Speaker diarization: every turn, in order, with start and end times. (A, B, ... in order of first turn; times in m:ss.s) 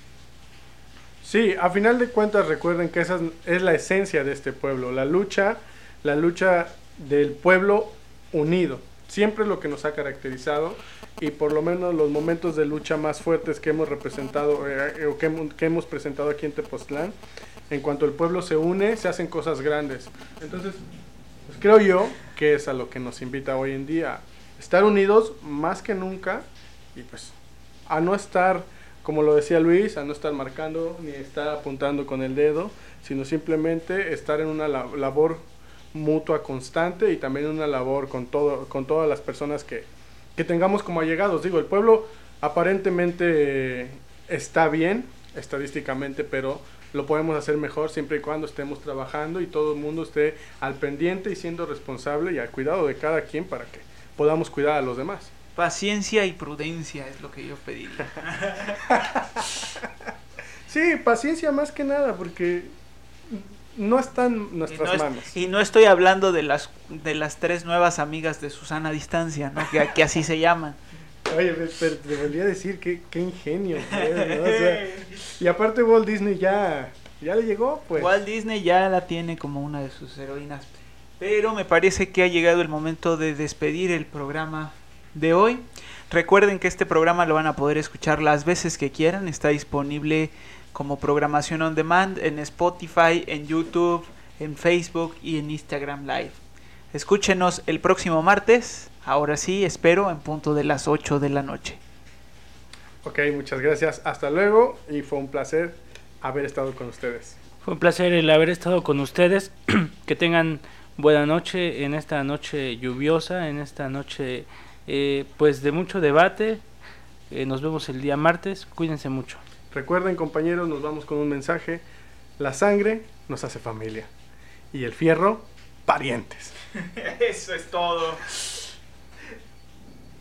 0:01.2-0:17.1 A
0:17.7-0:20.8 A
0:21.5-0:27.3 A
0:27.9-0:55.3 A
0:55.6-0:58.8 B
0:58.9-0:59.4 A
1:00.7-1:02.7 A
1:03.3-1:05.3 A
1:04.7-1:10.8 B
1:11.3-1:18.2 A
1:13.9-1:15.1 B
1:17.9-1:36.4 B
1:36.9-1:41.8 B
1:43.0-1:47.4 A
1:47.6-1:56.6 C
1:57.3-1:59.4 C
1:59.7-2:01.8 A
2:02.4-2:04.1 A
2:04.7-2:06.5 A
2:06.8-2:08.6 B